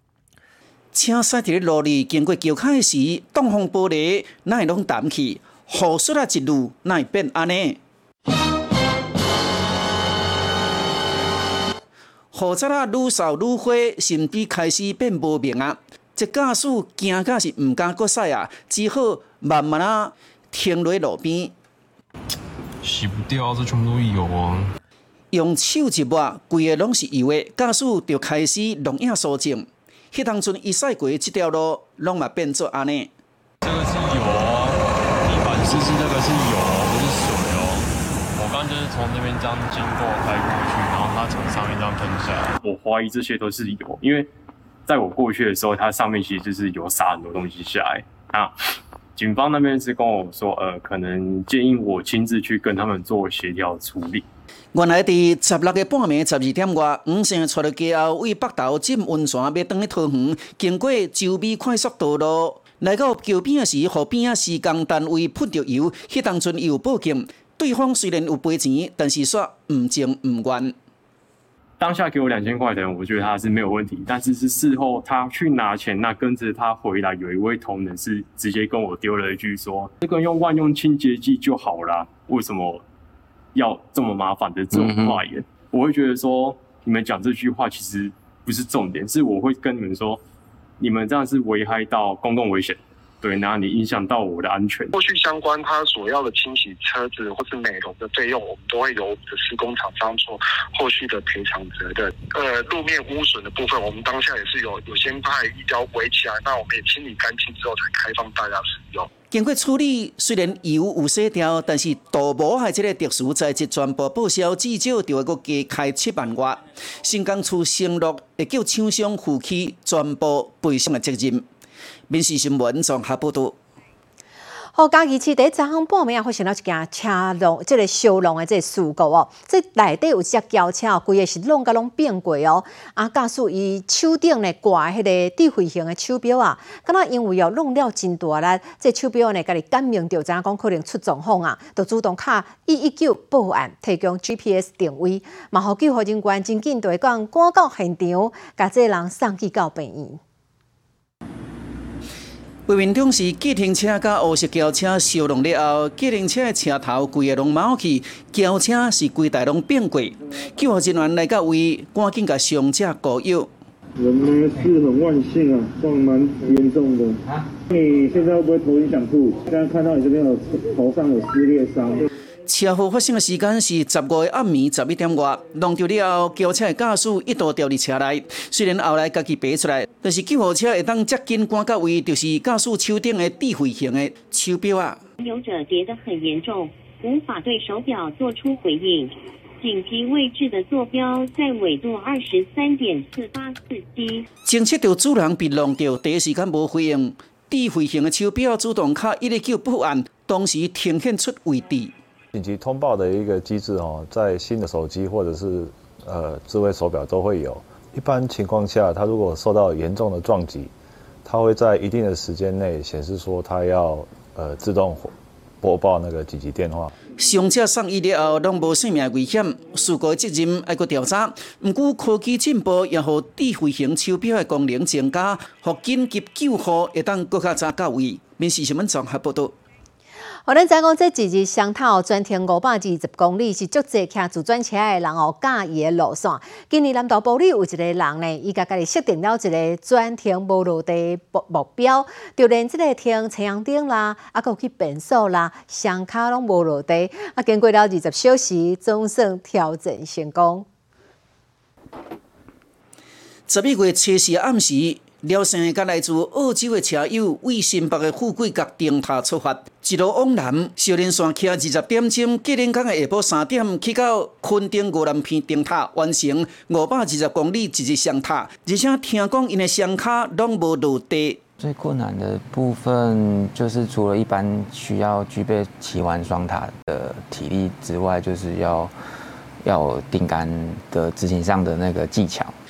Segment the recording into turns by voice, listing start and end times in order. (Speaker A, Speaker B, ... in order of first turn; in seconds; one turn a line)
Speaker A: 0.9-7.8
Speaker A: 12.3-21.5
Speaker A: 25.3-33.1
Speaker B: 33.6-44.3
Speaker B: 44.9-48.5
Speaker B: 49.2-54.2
Speaker A: 54.7-70.7
Speaker B: 71.8-82.8
Speaker B: 83.5-90.2
Speaker B: 90.8-94.9
Speaker C: 95.0-109.0
Speaker A: 109.3-121.4
Speaker A: 122.1-123.5
Speaker D: 124.8-150.2
Speaker A: 152.7-163.5
Speaker E: 164.0-167.1
Speaker E: 167.8-172.0
Speaker A: 172.5-185.0
Speaker F: 185.2-194.2
Speaker A: 194.5-201.9
Speaker G: 202.3-210.7
Speaker G: 211.2-216.9
Speaker A: 217.2-229.5
Speaker D: 230.5-250.7
Speaker A: 253.5-271.4
Speaker H: 271.6-278.9
Speaker H: 279.6-282.6